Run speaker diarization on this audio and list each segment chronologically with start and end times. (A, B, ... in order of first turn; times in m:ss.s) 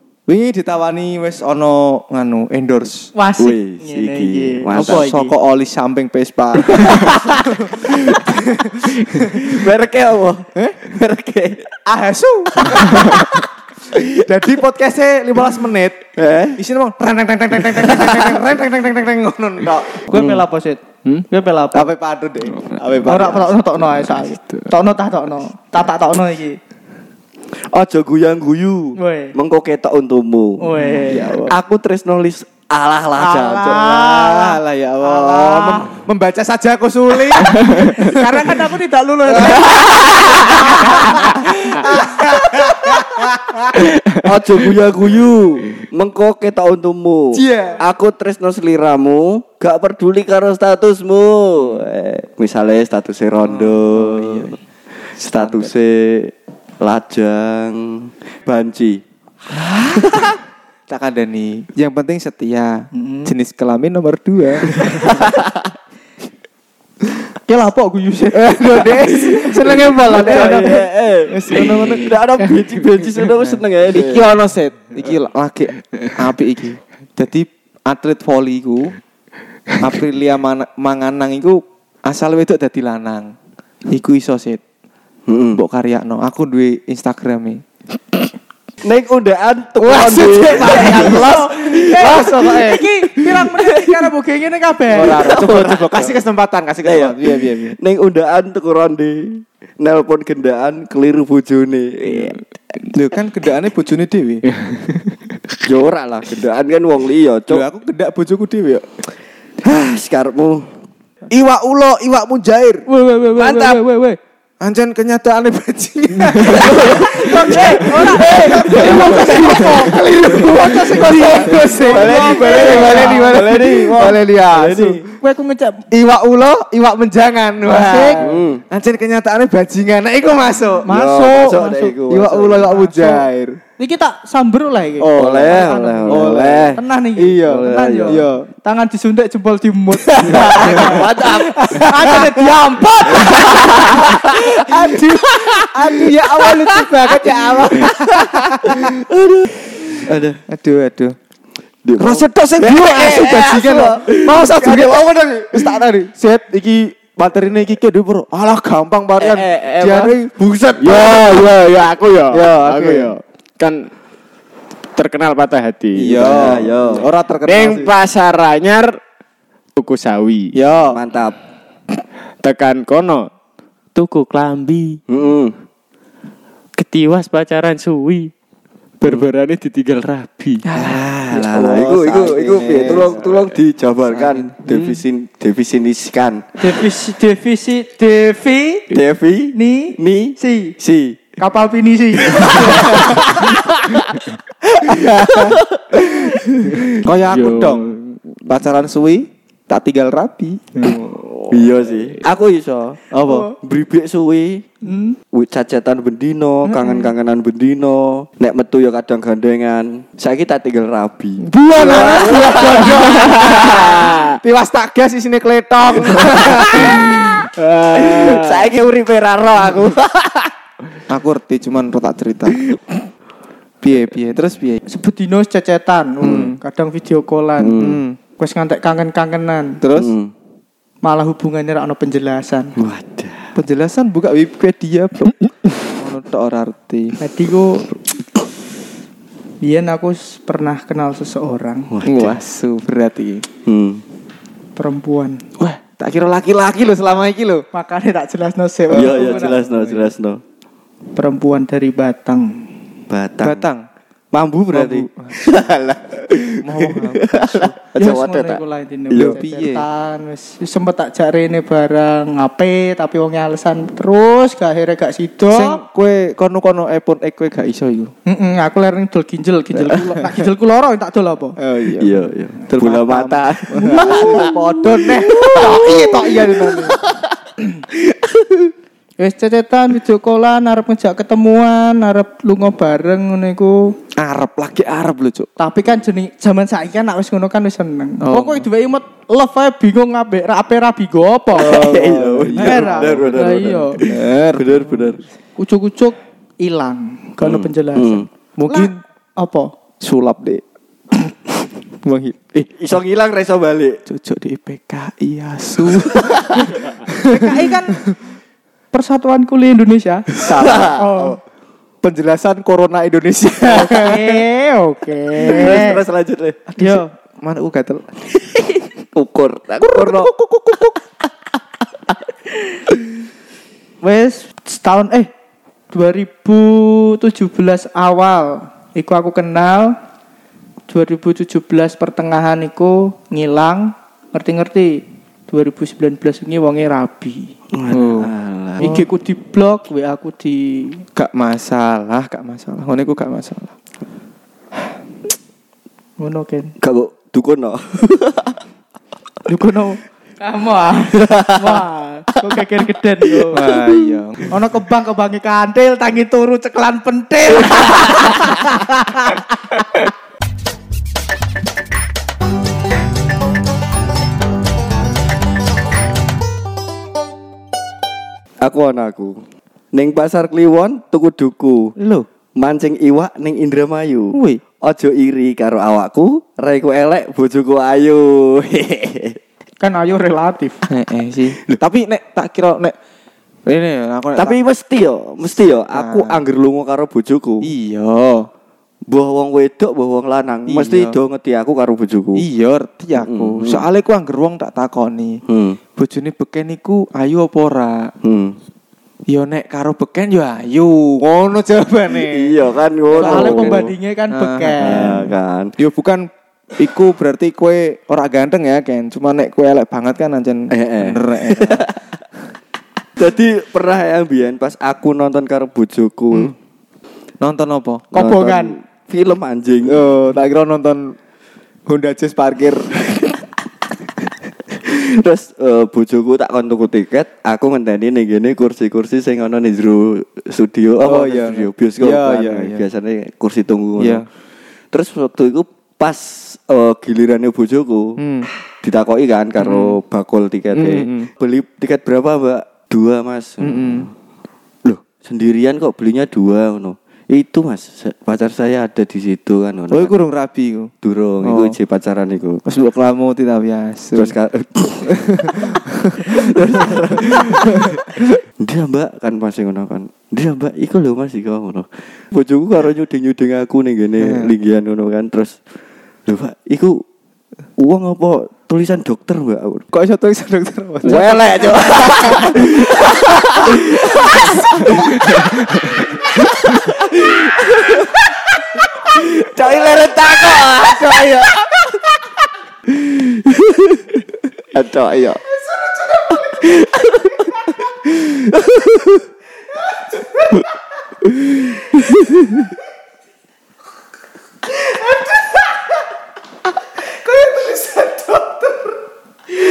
0:00.3-0:03.1 A
0:03.2-0:05.3 B
0:03.4-0:05.0 C
0:04.7-0:09.6 A
0:06.7-0:08.4 C
0:09.1-0:11.7 C
0:10.6-0:10.9 A
0:11.8-0:20.0 A
0:16.2-0:16.6 C
0:17.7-0:18.4 C
0:20.1-0:21.9 B
0:21.7-0:23.6 A
0:23.0-0:26.6 B
0:27.5-0:30.6 C
0:29.0-0:29.4 B
0:30.6-0:31.5 B
0:31.1-0:31.6 A
0:31.2-0:33.8 C
0:33.2-0:36.0 B
0:33.6-0:38.6 A
0:37.6-0:41.4 B
0:39.3-0:39.8 A
0:39.4-0:41.5 C
0:40.7-0:43.8 A
0:42.6-0:42.9 C
0:43.7-0:59.0 C
0:47.3-0:47.9 A
0:53.4-0:54.6 A
0:55.3-0:55.7 A
0:59.5-1:00.4 A
1:00.9-1:05.1 A
1:02.9-1:03.3 B
1:04.8-1:05.7 C
1:07.4-1:10.6 B
1:08.3-1:12.2 A
1:09.3-1:14.2 C
1:13.5-1:19.0 A
1:19.8-1:23.3 A
1:23.9-1:24.6 A
1:25.3-1:25.6 C
1:25.5-1:27.6 A
1:28.8-1:32.6 C
1:29.8-1:32.8 A
1:30.5-1:35.3 B
1:33.5-1:33.9 C
1:34.9-1:37.8 A
1:35.0-1:36.2 C
1:36.8-1:42.4 C
1:42.9-1:45.1 A
1:45.6-1:47.7 C
1:47.5-1:49.0 A
1:49.6-1:50.7 C
1:51.3-1:52.9 A
1:52.9-1:54.2 B
1:53.4-1:53.8 C
1:54.6-2:05.0 A
1:56.4-1:59.8 C
1:56.9-2:03.5 B
2:00.6-2:05.0 C
2:05.1-2:05.9 B
2:05.9-2:10.9 A
2:07.6-2:08.3 B
2:08.2-2:08.6 C
2:10.8-2:12.0 B
2:10.9-2:12.8 C
2:12.1-2:13.6 A
2:12.8-2:13.3 B
2:13.8-2:23.9 B
2:15.0-2:18.5 A
2:15.2-2:16.8 C
2:17.4-2:18.2 C
2:20.1-2:22.5 A
2:20.2-2:22.2 C
2:23.1-2:30.4 C
2:23.3-2:29.0 A
2:30.5-2:31.1 A
2:31.8-2:35.8 C
2:32.0-2:40.3 A
2:39.2-2:41.4 C
2:40.8-2:43.9 D
2:42.3-2:43.1 A
2:45.0-2:46.6 D
2:46.0-2:48.0 A
2:46.2-2:47.1 C
2:47.4-2:49.0 D
2:49.8-2:50.5 D
2:50.5-2:51.0 A
2:50.9-2:51.4 C
2:52.4-2:53.3 D
2:54.0-2:55.0 D
2:55.1-2:55.6 C
2:56.8-2:58.3 D
2:59.0-3:00.7 D
3:00.6-3:03.5 A
3:00.8-3:06.5 C
3:04.1-3:04.6 A
3:06.6-3:08.9 B
3:08.9-3:11.2 C
3:09.5-3:10.8 B
3:11.4-3:13.6 B
3:12.4-3:14.0 C
3:14.8-3:16.2 A
3:14.9-3:16.8 C
3:16.8-3:17.9 A
3:17.3-3:18.2 D
3:18.5-3:21.0 A
3:20.8-3:21.9 D
3:21.5-3:23.1 C
3:23.1-3:23.5 A
3:23.6-3:24.7 C
3:24.8-3:25.2 B
3:25.3-3:34.0 C
3:31.5-3:37.0 A
3:31.7-3:34.4 D
3:36.1-3:37.1 C
3:36.7-3:38.7 D
3:37.9-3:40.5 C
3:41.1-3:42.6 A
3:43.8-3:44.8 A
3:44.9-3:47.8 B
3:46.2-3:46.6 A
3:46.2-3:46.5 C
3:47.6-3:48.0 C
3:47.8-3:48.2 A
3:48.4-3:49.8 B
3:49.8-3:50.2 A
3:50.0-3:50.3 C
3:51.0-3:52.8 B
3:52.8-3:53.5 C
3:53.6-3:57.2 A
3:57.2-3:57.9 B
3:59.6-4:01.9 B
4:01.9-4:02.4 C
4:02.0-4:03.5 A
4:03.6-4:04.0 C
4:04.8-4:05.4 B
4:05.6-4:07.6 A
4:07.7-4:09.6 B
4:08.9-4:10.1 A
4:08.9-4:10.4 C
4:11.1-4:12.6 B
4:13.1-4:13.7 C
4:13.4-4:13.8 A
4:14.3-4:19.4 C
4:14.7-4:15.4 A
4:16.6-4:17.7 A
4:18.0-4:25.8 B
4:19.1-4:19.9 A
4:25.5-4:28.1 A
4:28.2-4:31.6 B
4:29.7-4:30.5 A
4:31.6-4:37.0 A
4:32.0-4:37.3 C
4:35.6-4:36.0 B
4:38.1-4:38.6 C
4:39.2-4:43.9 B
4:44.2-4:45.5 A
4:45.6-4:52.0 B
4:48.2-4:48.7 A
4:51.5-4:55.2 C
4:51.6-4:53.3 A
4:52.5-4:54.0 B
4:54.0-4:55.1 A
4:55.6-4:59.7 B
4:57.4-4:58.2 C
4:58.6-4:59.0 A
5:00.0-5:00.6 A
5:02.0-5:02.7 A
5:02.7-5:04.0 C
5:04.1-5:08.1 A
5:06.2-5:06.7 C
5:07.3-5:08.1 B
5:08.9-5:11.4 B
5:10.4-5:11.3 A
5:10.5-5:11.0 C
5:12.0-5:14.4 A
5:13.7-5:16.0 B
5:15.4-5:16.6 C
5:16.8-5:18.0 A
5:16.8-5:17.1 B
5:18.4-5:20.3 C
5:19.8-5:21.0 A
5:24.0-5:25.3 B
5:25.9-5:29.9 B
5:30.9-5:37.5 B
5:37.7-5:39.0 C
5:37.9-5:39.1 A
5:38.8-5:41.0 B
5:41.1-5:43.7 A
5:46.2-5:46.7 B
5:46.8-5:48.6 C
5:49.5-5:53.8 B
5:53.5-5:54.5 A
5:54.5-6:00.0 B
6:08.6-6:09.4 C
6:09.9-6:12.0 C
6:12.0-6:12.2 A
6:12.6-6:19.4 C
6:14.3-6:14.6 A
6:19.8-6:20.8 B
6:20.9-6:23.0 A
6:23.6-6:24.6 A
6:24.4-6:27.7 C
6:25.9-6:26.4 A
6:27.6-6:28.5 A
6:29.1-6:32.4 C
6:30.7-6:31.2 A
6:32.4-6:35.4 A
6:33.2-6:33.8 C
6:35.5-6:35.8 C
6:36.0-6:38.1 A
6:38.2-6:38.6 C
6:39.3-6:42.6 A
6:42.2-6:43.9 C
6:43.1-6:45.2 B
6:43.1-6:51.9 A
6:44.8-6:45.7 C
6:50.7-6:51.9 C
6:53.2-6:56.6 C
6:57.4-6:58.1 A
6:58.1-6:58.8 B
6:58.1-7:00.0 C
6:59.8-7:01.2 A
7:01.9-7:03.3 A
7:04.7-7:14.2 C
7:11.0-7:12.8 A
7:14.0-7:14.2 A
7:14.9-7:18.2 C
7:18.2-7:18.5 A
7:18.8-7:24.1 C
7:19.6-7:20.0 A
7:20.7-7:21.3 A
7:23.6-7:24.1 A
7:24.8-7:30.1 C
7:29.9-7:30.9 A
7:31.0-7:32.6 C
7:31.4-7:31.8 A
7:32.6-7:34.3 A
7:34.1-7:45.6 C
7:35.1-7:36.4 A
7:37.5-7:37.8 A
7:44.2-7:44.5 A
7:46.3-7:47.0 C
7:47.8-7:49.8 C
7:49.9-7:56.1 A
7:51.0-7:55.5 C
7:56.2-8:02.3 C
7:56.6-7:57.0 A
8:02.9-8:04.1 C
8:04.7-8:05.4 C
8:06.4-8:09.2 C
8:11.2-8:12.6 C
8:17.2-8:19.0 A